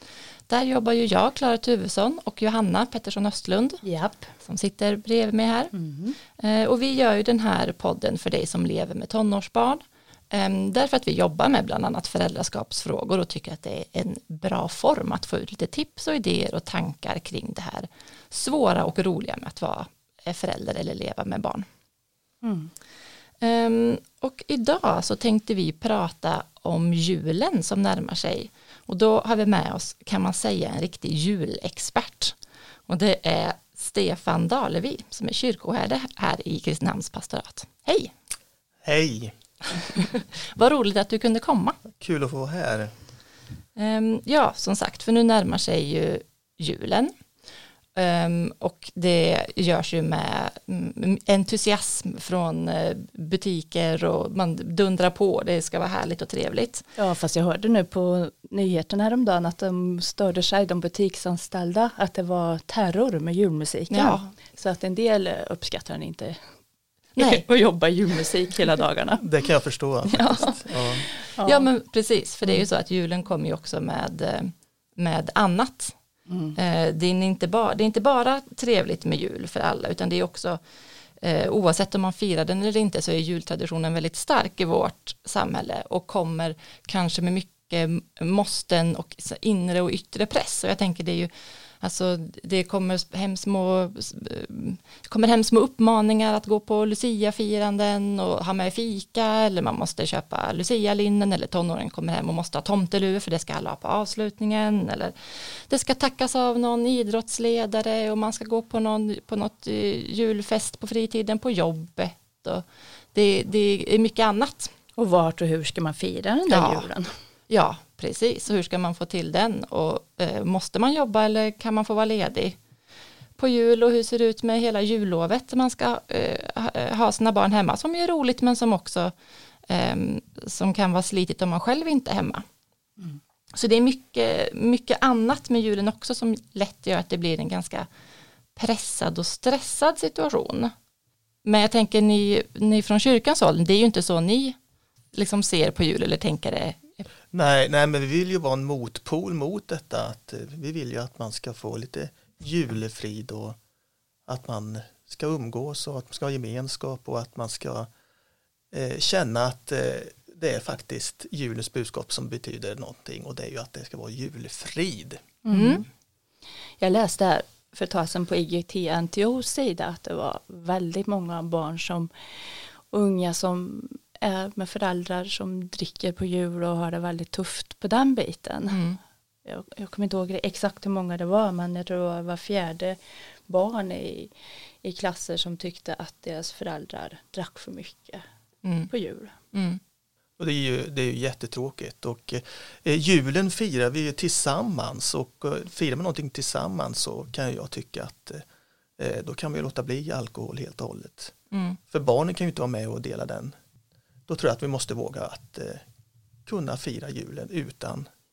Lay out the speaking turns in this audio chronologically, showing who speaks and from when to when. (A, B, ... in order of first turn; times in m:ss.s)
0:00.5-0:03.8 A
0:03.8-0:04.3 B
0:04.4-0:05.7 A
0:05.7-0:06.2 B
0:06.3-0:21.6 A
0:22.4-0:22.7 B
0:23.4-0:32.4 A
0:32.9-0:38.1 A
0:38.8-0:39.3 C
0:39.7-0:41.8 A
0:42.0-0:42.9 C
0:43.8-0:47.1 A
0:47.9-0:56.9 A
0:57.0-1:06.4 B
1:03.9-1:04.4 A
1:07.2-1:07.4 A
1:07.2-1:09.3 B
1:09.2-1:11.0 C
1:10.1-1:11.7 B
1:10.2-1:10.5 A
1:11.1-1:15.9 A
1:16.3-1:16.6 B
1:16.5-1:20.6 A
1:21.2-1:31.3 A
1:31.8-1:54.7 A
1:55.0-1:57.1 B
1:56.5-1:56.9 A
1:57.5-2:02.6 A
2:03.4-2:09.1 A
2:09.7-2:12.4 A
2:13.5-2:17.9 A
2:18.6-2:20.7 A
2:21.4-2:24.6 A
2:25.1-2:27.1 A
2:27.3-2:33.6 C
2:34.3-2:37.9 C
2:38.7-2:45.2 C
2:45.4-2:45.8 B
2:45.5-2:45.8 A
2:46.8-2:58.8 B
2:58.7-2:59.0 A
2:59.4-3:08.2 B
3:08.6-3:08.9 A
3:08.9-3:09.4 B
3:09.5-3:09.8 A
3:10.4-3:18.4 C
3:19.0-3:21.3 C
3:21.5-3:21.8 A
3:21.9-3:23.5 C
3:24.3-3:25.8 C
3:26.4-3:28.1 C